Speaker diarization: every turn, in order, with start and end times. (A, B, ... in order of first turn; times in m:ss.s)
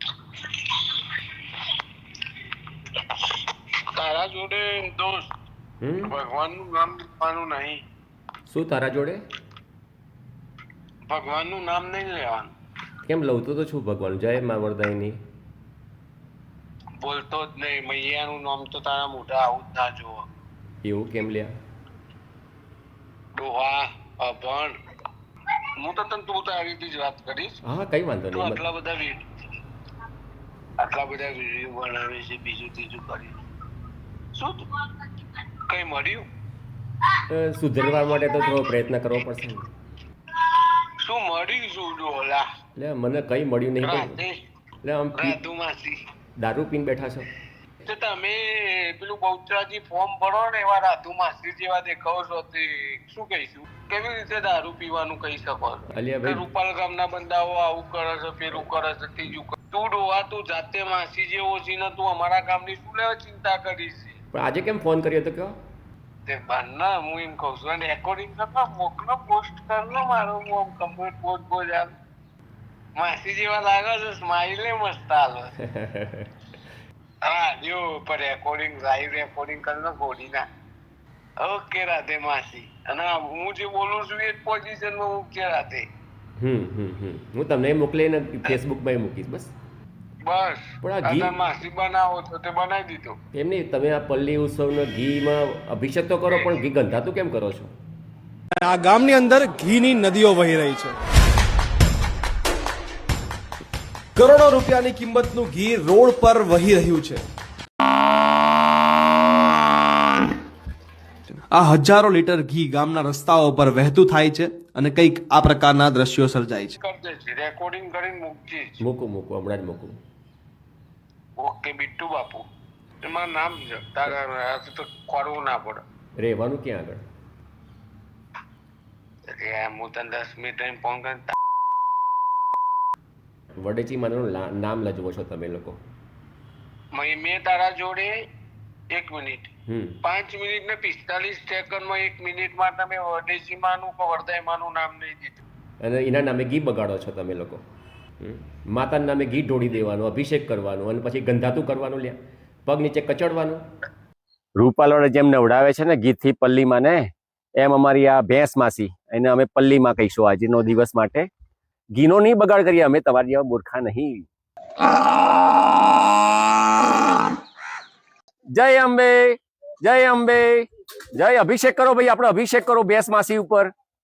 0:00.5-0:01.0 A
0:03.0-0:03.4 A
0:04.0-0:05.3 A
0:05.8-0:06.1 B
0:06.1-0:07.8 A
0:08.5-0:09.2 B
0:11.1-0:12.5 A
0:13.0-0:15.2 B
0:17.0-0:20.2 A
0:20.8-0:21.5 B
0:23.4-0:24.8 A
0:25.8-0:27.6 A
0:27.6-0:28.6 B
0:28.3-0:29.2 A
0:30.8-0:33.4 A
0:34.4-0:34.8 A
0:35.7-0:36.3 A
0:37.3-0:39.7 B
0:40.4-0:42.5 A
0:42.8-0:44.2 B
0:43.8-0:44.4 A
0:44.8-0:45.4 B
0:45.2-0:46.0 A
0:46.4-0:47.3 B
0:47.8-1:04.2 A
0:55.9-0:56.4 B
1:04.3-1:05.6 B
1:06.3-1:11.9 A
1:13.0-1:15.5 A
1:15.7-1:16.3 B
1:17.2-1:20.5 A
1:21.4-1:25.8 A
1:26.4-1:29.5 B
1:30.2-1:33.2 A
1:30.8-1:31.3 B
1:33.3-1:37.7 B
1:38.6-1:41.0 C
1:44.2-1:47.2 C
1:51.3-1:56.8 C
1:56.8-1:58.8 A
1:58.8-2:00.0 B
2:01.4-2:02.5 A
2:03.0-2:05.8 A
2:06.2-2:07.0 B
2:09.3-2:11.4 A
2:13.6-2:15.8 B
2:16.9-2:18.1 A
2:18.9-2:19.5 A
2:19.7-2:20.0 B
2:20.0-2:25.4 A
2:25.8-2:27.6 B
2:28.2-2:33.6 B
2:34.6-2:41.3 B
2:42.0-2:44.2 B
2:48.5-2:53.7 B